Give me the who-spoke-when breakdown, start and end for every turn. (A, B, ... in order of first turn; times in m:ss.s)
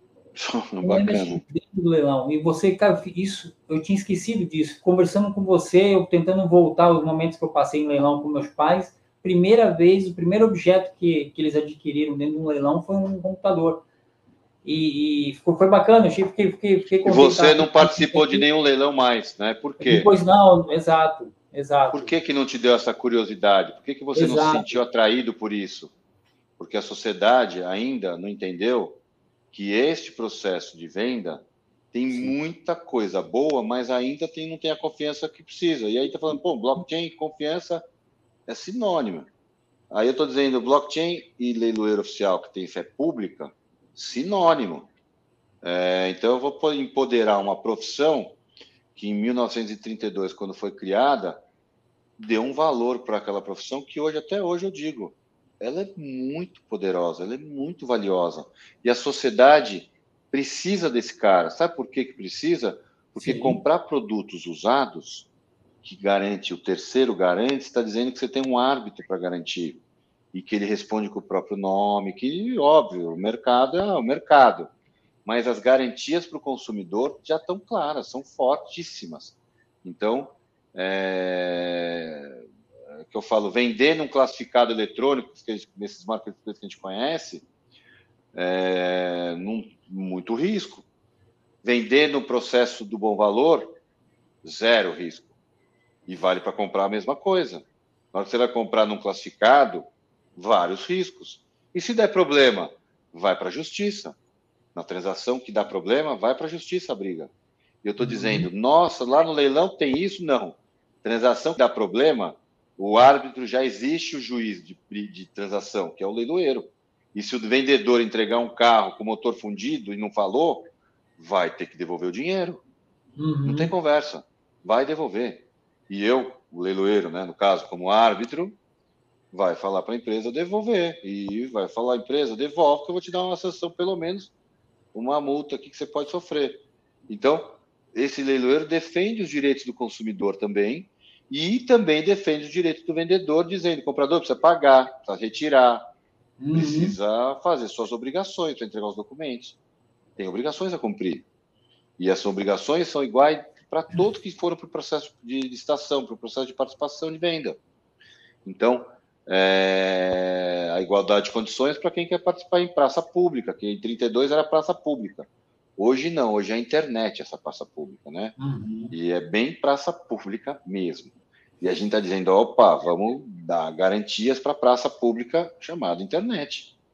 0:00.3-0:01.4 A
0:00.8-0:13.8 B
0:14.6-0:18.4 B
0:17.0-0:20.1 A
0:19.8-0:22.1 B
0:21.9-0:25.9 A
0:24.1-0:24.8 B
0:26.6-0:29.0 A
0:29.5-0:37.8 A
0:38.5-0:39.3 A
0:39.9-0:44.9 A
0:45.6-0:48.4 A
0:48.9-0:51.4 A
0:52.2-1:05.3 A
1:03.2-1:03.6 B
1:05.8-1:14.7 A
1:15.2-1:22.4 A
1:23.0-1:27.4 A
1:28.3-1:30.9 A
1:31.6-1:33.7 A
1:34.4-1:35.3 A
1:36.0-1:39.8 A
1:40.4-1:44.2 A
1:44.7-1:47.3 A
1:47.8-2:02.6 A
1:48.0-1:48.5 B
2:03.2-2:03.7 B
2:03.4-2:08.6 A
2:09.3-2:14.3 A
2:14.9-2:25.8 A
2:26.4-2:26.9 B
2:26.5-2:29.6 A
2:30.2-2:31.2 A
2:32.0-2:37.6 A
2:38.4-2:48.3 A
2:48.4-2:48.9 B
2:48.9-2:56.7 A